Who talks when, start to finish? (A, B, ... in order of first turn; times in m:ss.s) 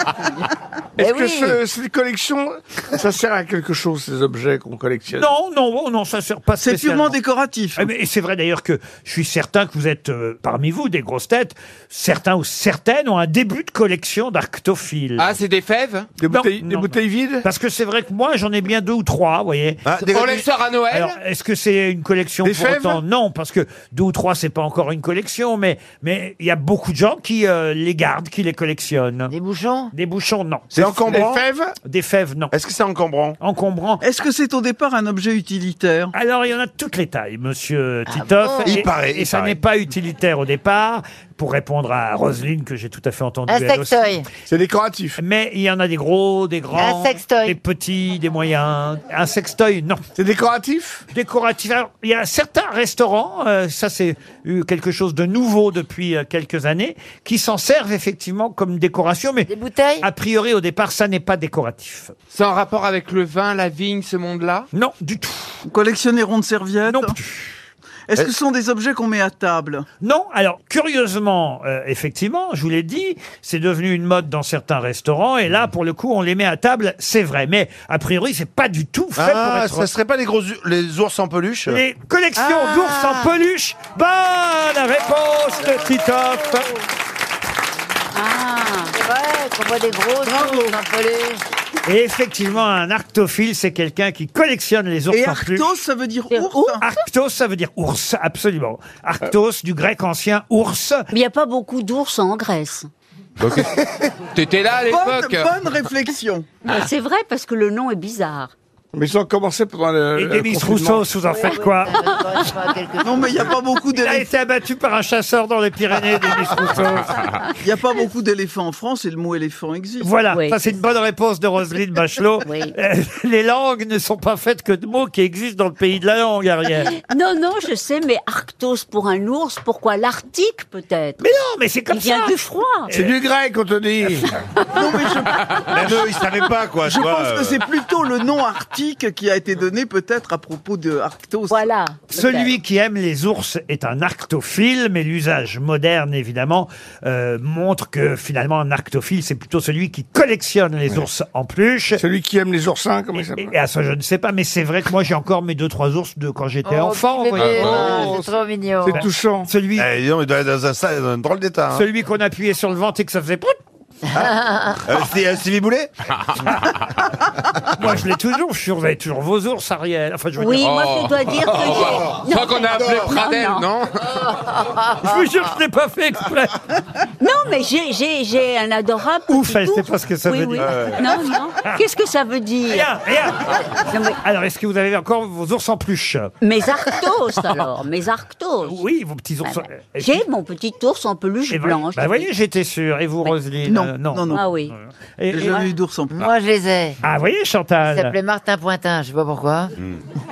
0:01.0-0:05.3 A
0:01.0-0:01.6 B
0:05.2-0:07.2 C
0:06.6-0:07.9 D
0:07.8-0:15.3 C
0:15.2-0:16.1 E
0:16.2-0:17.5 A
0:16.3-0:19.8 C
0:19.8-0:20.5 F
0:20.1-0:21.2 E
0:20.9-0:29.3 C
0:22.4-0:23.0 A
0:29.3-0:29.9 B
0:29.9-0:31.3 C
0:30.7-0:31.4 F
0:31.1-0:31.7 A
0:31.8-0:32.6 C
0:32.5-0:33.4 F
0:33.4-0:34.0 C
0:34.0-0:36.1 D
0:36.1-0:44.1 C
0:38.1-0:38.8 B
0:38.6-0:39.6 F
0:43.5-0:44.3 B
0:44.5-0:45.2 A
0:45.2-0:50.0 C
0:46.8-0:47.6 B
0:50.2-0:51.0 A
0:51.1-0:59.5 C
0:59.5-1:00.1 B
1:00.0-1:02.1 C
1:02.3-1:04.7 E
1:04.7-1:05.6 C
1:05.7-1:07.2 D
1:06.9-1:07.6 C
1:08.1-1:09.8 D
1:10.0-1:19.9 C
1:19.2-1:21.8 F
1:21.7-1:26.7 C
1:22.5-1:23.1 B
1:28.1-1:29.0 G
1:29.0-1:31.4 B
1:31.9-1:35.7 C
1:35.1-1:36.8 D
1:36.3-1:36.8 G
1:36.8-1:41.1 C
1:41.1-1:42.9 G
1:43.4-1:43.7 E
1:44.3-1:45.5 E
1:44.8-1:46.5 D
1:46.7-1:48.5 G
1:48.9-1:51.0 A
1:50.2-1:52.0 C
1:51.3-1:53.5 B
1:53.0-1:54.3 D
1:54.0-1:57.4 C
1:57.6-2:00.2 D
2:00.0-2:07.0 C
2:00.3-2:00.6 G
2:02.4-2:02.8 G
2:06.9-2:11.2 G
2:11.2-2:12.4 C
2:11.9-2:12.9 G
2:12.9-2:14.4 A
2:14.7-2:16.1 D
2:15.7-2:17.6 F
2:16.8-2:21.7 D
2:21.5-2:22.6 G
2:22.1-2:32.0 C
2:32.0-2:33.5 A
2:33.2-2:38.1 C
2:36.6-2:39.0 B
2:37.4-2:38.2 E
2:37.6-2:39.5 A
2:38.9-2:39.9 C
2:39.8-2:41.8 F
2:41.7-2:43.6 C
2:44.1-2:44.8 B
2:44.1-2:45.9 F
2:46.2-2:46.6 E
2:47.8-2:50.7 C
2:50.4-2:53.7 G
2:50.6-2:54.2 E
2:52.8-2:53.1 F
2:54.6-2:55.2 B
2:55.0-2:56.6 C
2:57.2-3:02.9 G
2:59.3-3:01.0 C
3:00.6-3:01.1 F
3:02.7-3:03.7 C
3:03.8-3:04.2 G
3:04.2-3:06.3 C
3:06.4-3:08.8 G
3:08.6-3:10.2 C
3:09.4-3:12.3 G
3:11.5-3:15.7 C
3:13.6-3:14.5 D
3:14.3-3:14.7 G
3:15.3-3:16.2 D
3:16.2-3:17.0 B
3:17.0-3:18.2 C
3:17.8-3:19.7 B